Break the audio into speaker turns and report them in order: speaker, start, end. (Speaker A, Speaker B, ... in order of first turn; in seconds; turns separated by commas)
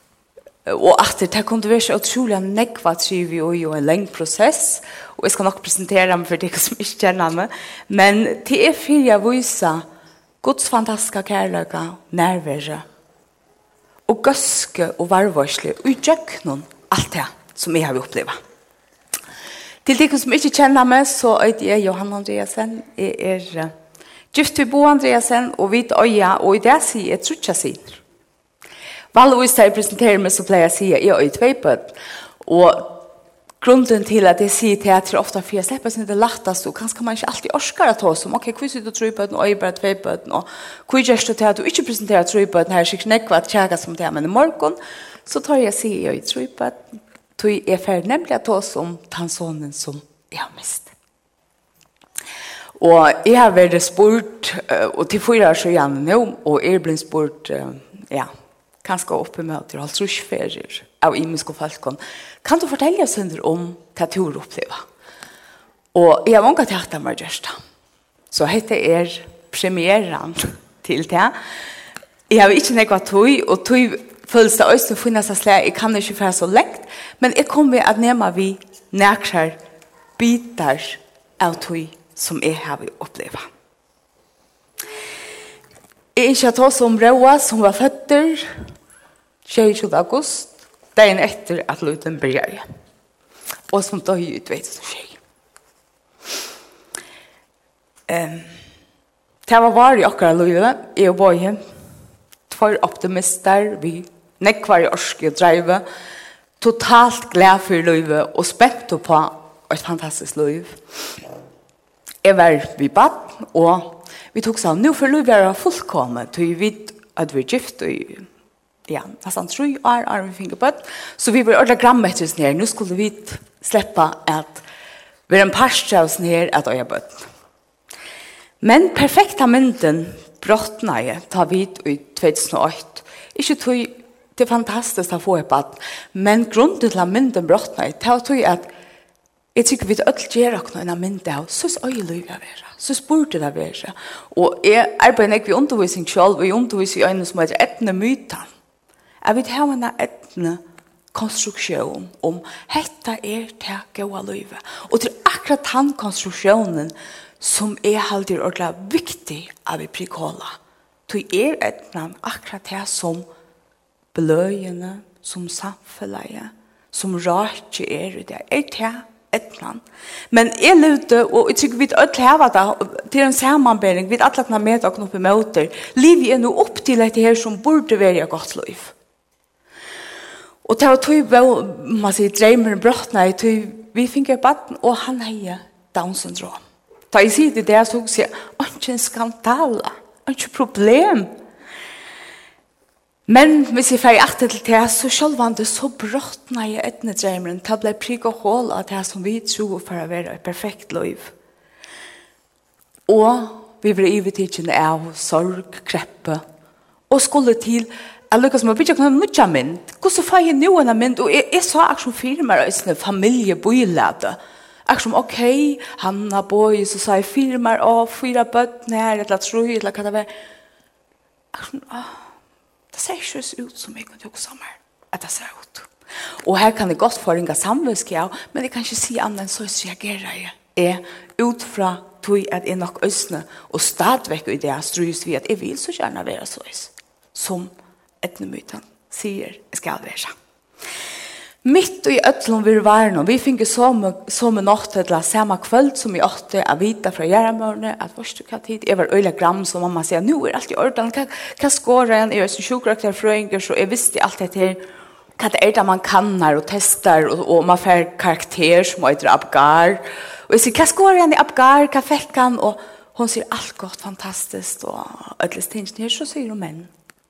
Speaker A: 0.7-9.9, Speaker A: 10.4-12.8, Speaker A: 14.1-18.4, Speaker A: 19.9-23.7, Speaker A: 24.3-28.0, Speaker A: 29.1-33.1, Speaker A: 33.6-46.8, Speaker A: 47.4-50.9, Speaker A: 52.8-58.3, Speaker A: 58.8-64.8, Speaker A: 65.9-67.6, Speaker A: 68.3-71.4, Speaker A: 72.3-79.6, Speaker A: 80.2-83.5, Speaker A: 86.2-88.5, Speaker A: 89.5-92.6, Speaker A: 93.7-95.2, Speaker A: 98.1-98.5, Speaker A: 99.5-101.6, Speaker A: 102.5-105.8, Speaker A: 106.6-110.8, Speaker A: 112.2-118.3, Speaker A: 118.9-124.7, Speaker A: 125.3-127.3, Speaker A: 128.6-138.7, Speaker A: 139.6-148.5, Speaker A: 149.2-150.6, Speaker A: 151.1-163.3, Speaker A: 164.1-178.9, Speaker A: 180.7-186.6, Speaker A: 187.1-191.3, Speaker A: 193.3-201.3, Speaker A: 203.1-206.4, Speaker A: 207.1-220.3, Speaker A: 221.5-222.3, Speaker A: 222.9-225.9, Speaker A: 226.4-237.7, Speaker A: 238.2-240.3, Speaker A: 241.6-254.8, Speaker A: 255.4-266.9